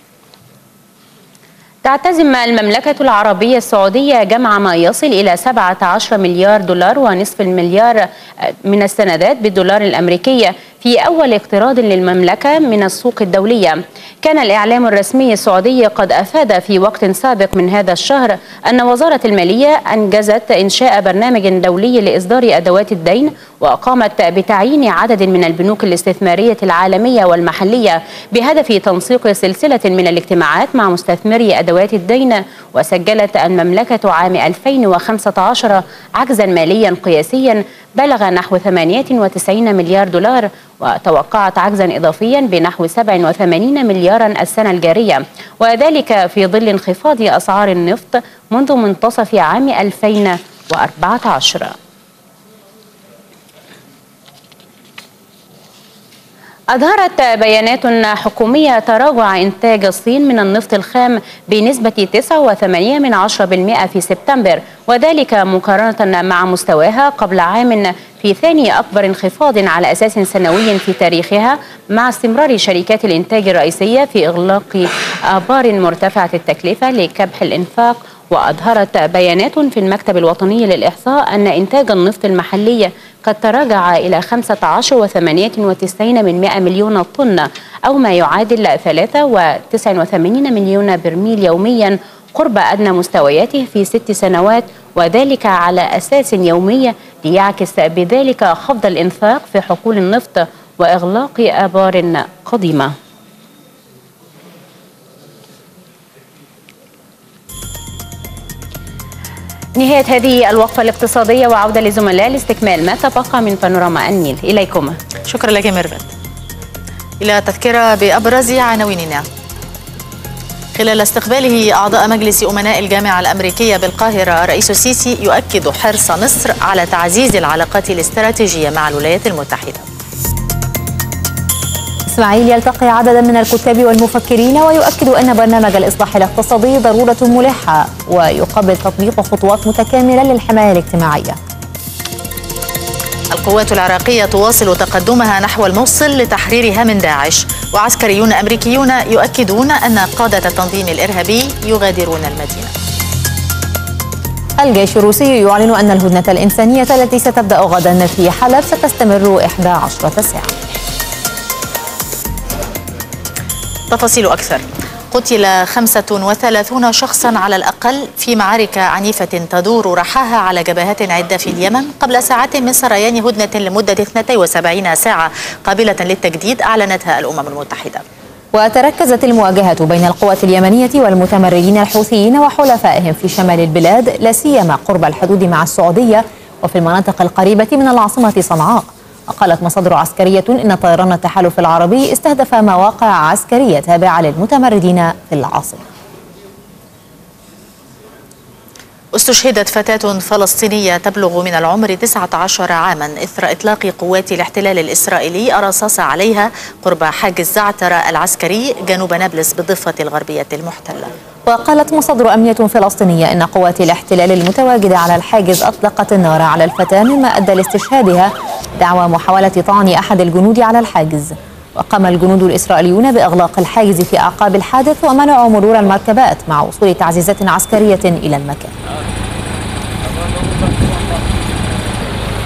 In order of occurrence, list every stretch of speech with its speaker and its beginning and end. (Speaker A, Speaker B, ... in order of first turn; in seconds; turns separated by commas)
Speaker A: 1.8-51.7, Speaker A: 56.7-102.9, Speaker A: 109.8-115.0, Speaker B: 115.2-116.1, Speaker B: 117.2-119.2, Speaker B: 120.7-129.8, Speaker C: 132.1-141.4, Speaker B: 143.3-152.7, Speaker C: 154.6-160.5, Speaker B: 163.9-178.0, Speaker C: 178.5-195.9, Speaker B: 199.1-211.1, Speaker C: 211.4-228.7